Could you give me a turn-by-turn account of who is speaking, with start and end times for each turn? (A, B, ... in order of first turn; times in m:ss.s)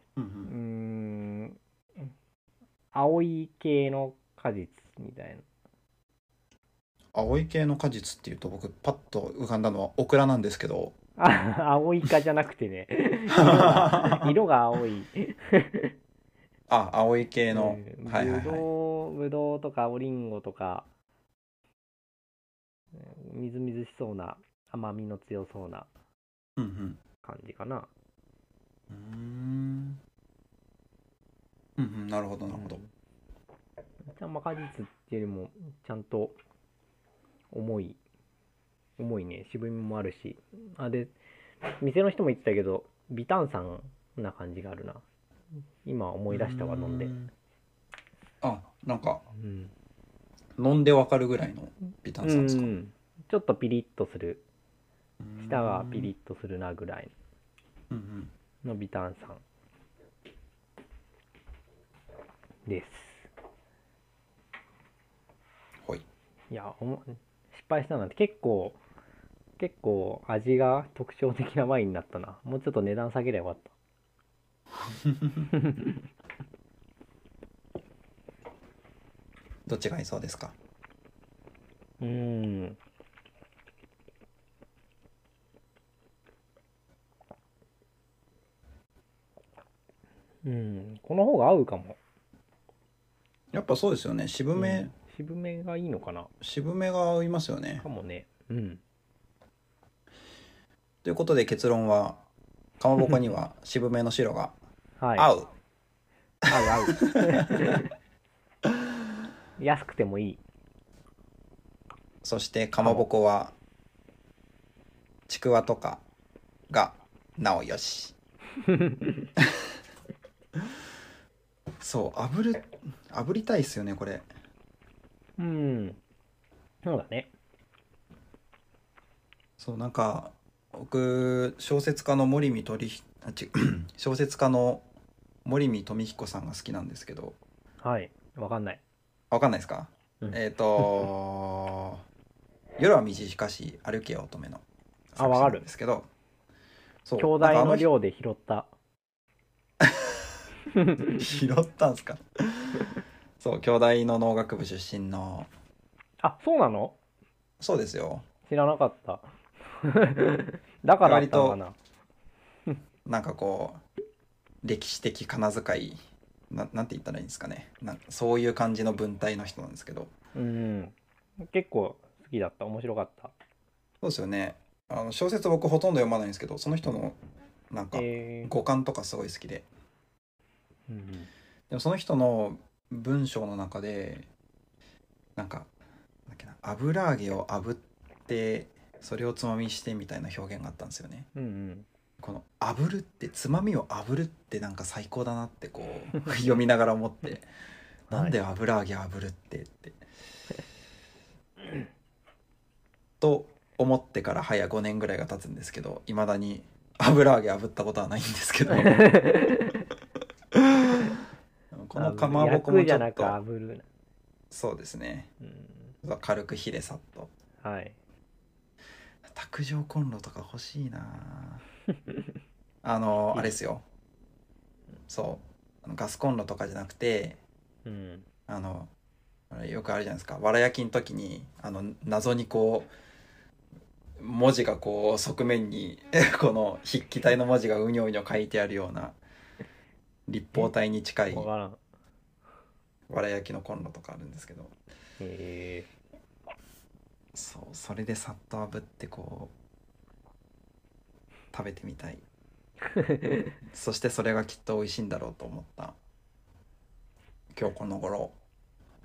0:00.2-0:00.5 A
0:00.4-0:02.1 B
0:02.9-0:05.4 B
0:07.1-0:10.9 A
0:11.2-0:15.9 B
0:13.3-0:14.3 A
0:16.7-0:18.6 A
0:17.5-0:20.9 B
0:23.0-0:25.9 B
0:26.6-0:27.0 A
0:27.2-0:27.9 B
0:28.9-0:30.0 A
0:31.8-0:32.8 A
0:32.5-0:32.9 B
0:34.1-0:36.4 B
0:37.5-0:38.0 B
0:39.0-0:41.1 B
0:41.7-0:45.0 B
0:45.8-0:47.1 B
0:46.3-0:47.3 A
0:48.4-0:49.2 A
0:49.3-0:49.7 B
0:50.6-0:52.7 A
0:52.2-0:54.4 B
0:55.2-0:56.1 A
0:55.4-0:57.1 B
0:57.9-0:58.3 A
0:58.6-0:59.4 B
1:02.7-1:03.3 B
1:06.5-1:08.8 B
1:09.6-1:13.7 B
1:14.8-1:15.5 A
1:15.5-1:16.0 B
1:19.6-1:20.5 A
1:22.0-1:22.8 B
1:30.4-1:32.0 B
1:33.5-1:34.9 A
1:34.6-1:36.3 B
1:36.4-1:37.8 A
1:37.8-1:38.8 B
1:41.0-1:42.2 A
1:42.8-1:44.5 A
1:45.0-1:45.3 B
1:45.2-1:45.5 A
1:46.4-1:47.8 A
1:46.5-1:47.9 B
1:49.6-1:50.4 B
1:52.2-1:53.5 A
1:52.8-1:53.0 B
1:55.3-1:56.0 A
1:56.7-1:58.1 A
1:58.6-1:59.3 B
2:01.8-2:04.3 A
2:05.4-2:06.0 B
2:06.8-2:07.3 B
2:09.6-2:14.8 A
2:15.4-2:17.4 A
2:17.8-2:18.8 B
2:19.3-2:22.0 A
2:20.2-2:21.0 B
2:22.8-2:26.1 A
2:25.2-2:25.6 B
2:27.0-2:27.9 A
2:27.2-2:28.7 B
2:29.8-2:30.2 A
2:30.7-2:31.2 B
2:31.2-2:35.5 A
2:36.2-2:37.0 B
2:37.6-2:38.2 A
2:38.5-2:39.2 B
2:39.8-2:41.7 B
2:41.0-2:41.6 A
2:43.0-2:43.8 A
2:44.6-2:46.0 A
2:46.5-2:50.1 A
2:50.3-2:53.3 B
2:54.0-2:57.2 A
2:57.7-2:59.6 A
2:57.9-2:58.5 B
3:00.9-3:01.3 B
3:01.7-3:04.3 A
3:05.4-3:05.7 A
3:06.3-3:11.3 A
3:11.3-3:11.9 B
3:12.2-3:17.4 A
3:18.1-3:18.4 B
3:18.1-3:20.0 A
3:23.2-3:29.2 A
3:28.7-3:29.8 B
3:30.5-3:31.1 A
3:31.7-3:33.4 A
3:31.9-3:33.8 B
3:34.5-3:35.3 A
3:35.4-3:35.9 B
3:36.0-3:37.3 A
3:37.6-3:38.0 B
3:39.2-3:41.6 A
3:42.8-3:43.8 A
3:45.1-3:47.4 A
3:47.8-3:48.2 B
3:48.5-3:48.9 A
3:49.5-3:52.9 A
3:54.2-3:59.2 A
4:00.3-4:01.5 A
4:01.3-4:01.8 B
4:03.1-4:04.7 A
4:05.2-4:05.9 B
4:07.3-4:09.5 A
4:11.5-4:12.2 A
4:12.9-4:13.5 B
4:13.7-4:16.0 A
4:17.5-4:18.3 A